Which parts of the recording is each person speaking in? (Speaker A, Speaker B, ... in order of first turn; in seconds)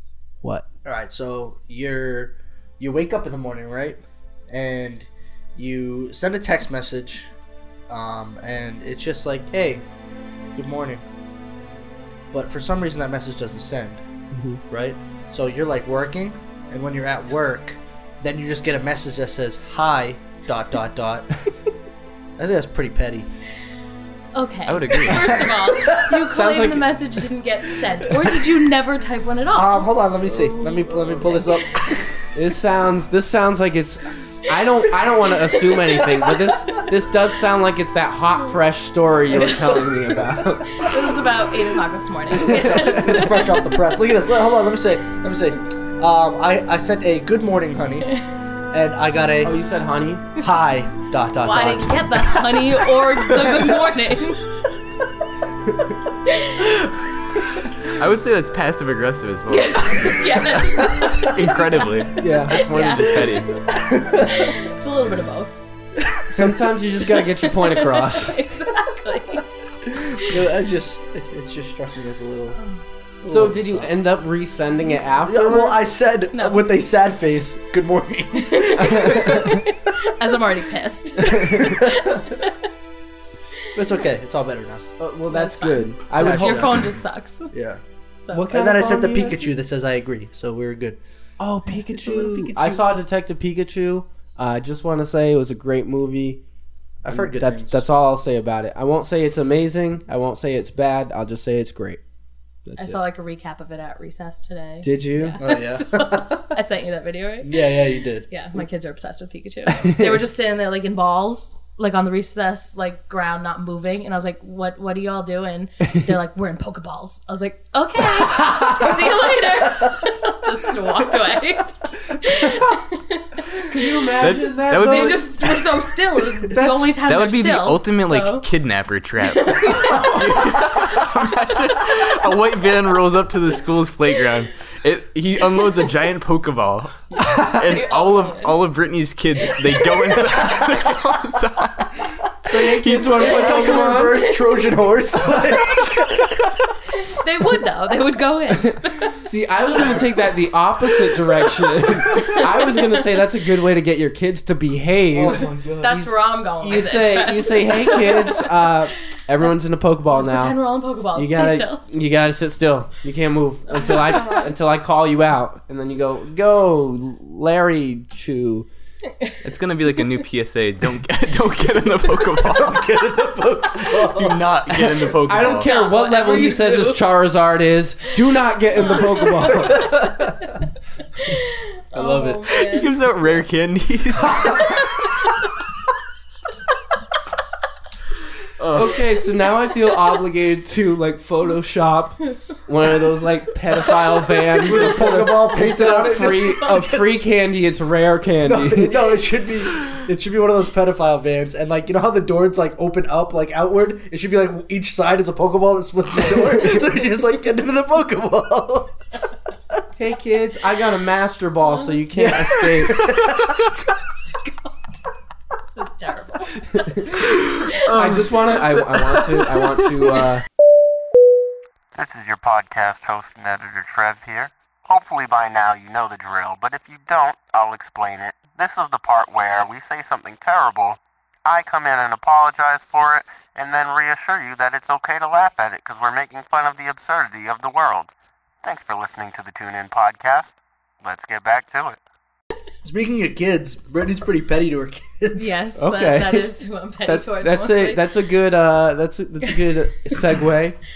Speaker A: 0.8-7.3, 7.9-9.8, 10.6-11.0, 12.3-14.0, 14.7-21.3, 22.4-23.3, 25.1-26.1, 29.5-32.1, 39.4-39.8, 42.3-48.1, 48.7-49.5, 50.4-52.6, 53.2-53.8, 63.7-64.5, 66.1-66.5, 69.9-72.6, 73.2-73.9, 75.2-79.6, 81.2-82.4, 83.8-84.9, 86.2-86.9, 87.5-87.8, 88.5-91.0, 91.9-93.0, 97.0-97.8, 105.4-106.5, 107.4-108.3, 143.1-146.4, 149.8-150.0, 155.1-156.1, 172.4-175.1, 179.6-180.5, 181.9-182.6, 194.6-197.2, 198.4-208.9, 212.1-213.7, 242.8-245.6
Speaker B: 14.3-14.6, 26.2-26.9, 32.3-40.8, 42.4-43.2, 49.4-50.2, 62.2-62.7, 66.3-68.5, 73.2-75.8, 79.0-79.3, 81.3-81.6, 85.0-86.8, 88.3-89.5, 91.4-96.4, 97.1-102.0, 102.7-103.0, 104.8-105.4, 109.7-110.2, 118.2-118.9, 123.7-125.3, 126.5-126.9, 137.2-137.6, 142.5-144.2, 149.2-155.5, 156.6-160.6, 161.2-168.7, 175.3-179.9, 188.7-199.0, 206.3-206.7, 210.0-213.1, 216.8-217.1, 217.9-220.4, 245.8-246.5, 247.1-250.8
Speaker C: 24.4-31.9, 39.3-39.9, 40.7-43.9, 51.4-54.4, 56.3-56.8, 59.5-61.9, 62.5-63.4, 64.2-65.5, 67.4-69.5, 76.3-76.7, 78.4-82.5, 85.3-87.5, 102.8-123.8, 124.7-128.4, 129.2-131.1, 137.2-138.6, 139.5-140.0, 143.3-144.7, 147.0-149.2, 152.1-153.2, 155.8-158.7, 160.1-161.8, 163.7-164.5, 175.6-177.0, 178.9-180.1, 181.2-182.9, 193.9-197.0, 214.5-215.0, 215.6-218.3, 245.3-248.1
Speaker D: 24.7-25.4, 57.9-63.5, 124.2-125.3, 127.0-142.0, 142.6-143.3, 169.4-173.0, 173.6-175.7, 182.7-184.9, 188.6-189.0
Speaker E: 221.9-238.1, 238.6-242.0